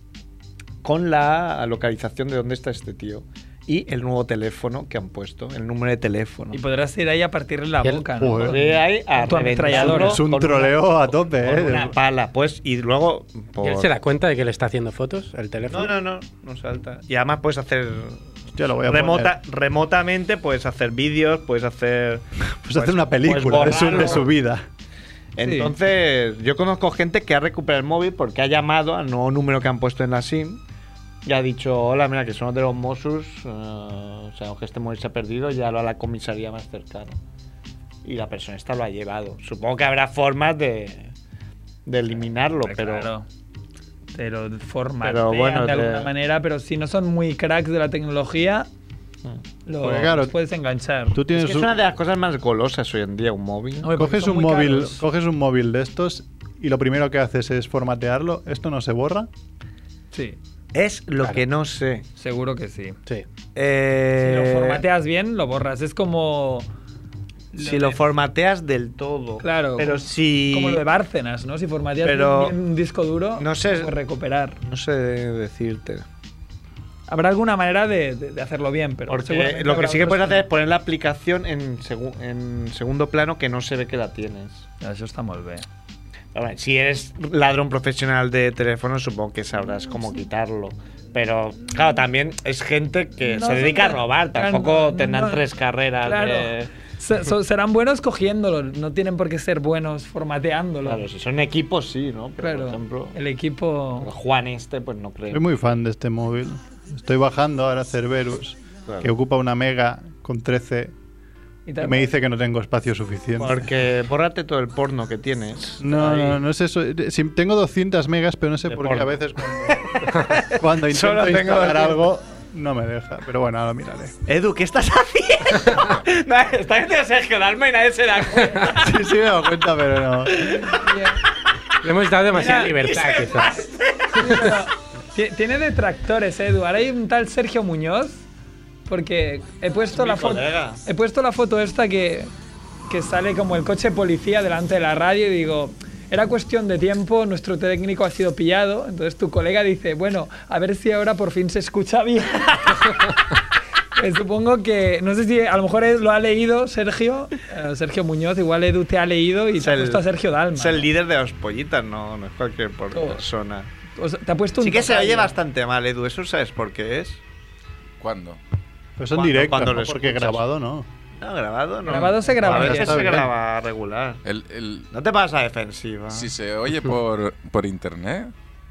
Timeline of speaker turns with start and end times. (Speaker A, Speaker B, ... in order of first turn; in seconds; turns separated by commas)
Speaker A: 0.8-6.6, Speaker B: 6.5-10.2, Speaker C: 8.2-8.6, Speaker A: 8.4-13.9, Speaker C: 9.7-11.9, Speaker D: 13.6-15.9, Speaker A: 15.7-18.3, Speaker C: 18.5-19.4, Speaker A: 18.9-24.3, Speaker C: 22.6-24.6, Speaker A: 25.4-30.6, Speaker B: 25.4-25.7, Speaker A: 31.3-37.2, Speaker A: 38.0-41.1, Speaker A: 41.9-43.1, Speaker B: 42.7-43.3, Speaker B: 44.1-48.7, Speaker A: 45.0-46.1, Speaker B: 49.7-51.2, Speaker C: 49.8-50.3, Speaker C: 51.1-51.7, Speaker A: 51.3-53.9, Speaker B: 53.8-55.0, Speaker C: 54.0-59.3, Speaker B: 60.1-60.4, Speaker A: 60.7-62.1, Speaker B: 62.2-63.0, Speaker A: 63.5-64.8, Speaker B: 64.2-66.7, Speaker B: 67.5-68.0, Speaker A: 67.6-70.8, Speaker B: 69.4-74.6, Speaker A: 72.0-72.6, Speaker A: 73.4-73.9, Speaker A: 74.6-76.0, Speaker B: 77.1-80.5, Speaker A: 79.1-84.7, Speaker B: 84.8-85.7, Speaker A: 86.3-96.7, Speaker B: 93.3-95.4, Speaker B: 96.0-101.0, Speaker A: 100.8-103.2, Speaker B: 102.4-104.1, Speaker A: 104.0-105.4, Speaker C: 105.3-110.9, Speaker B: 111.7-112.1, Speaker C: 111.8-113.7, Speaker A: 113.4-116.4, Speaker C: 115.8-124.2, Speaker A: 118.7-122.1, Speaker A: 124.3-128.9, Speaker C: 128.7-130.5, Speaker A: 130.3-130.8, Speaker B: 130.7-131.2, Speaker D: 131.8-133.6, Speaker A: 132.3-134.5, Speaker B: 132.4-132.7, Speaker B: 134.2-138.2, Speaker B: 138.9-142.3, Speaker A: 139.9-140.8, Speaker B: 142.9-152.8, Speaker B: 153.9-160.9, Speaker A: 159.6-163.7, Speaker B: 162.9-163.2, Speaker B: 164.0-165.3, Speaker A: 164.6-167.2, Speaker E: 168.0-168.4, Speaker C: 169.0-170.9, Speaker A: 169.1-170.4, Speaker A: 171.2-174.2, Speaker B: 171.9-173.1, Speaker C: 172.4-173.3, Speaker E: 174.2-174.9, Speaker A: 174.9-176.3, Speaker E: 176.1-178.3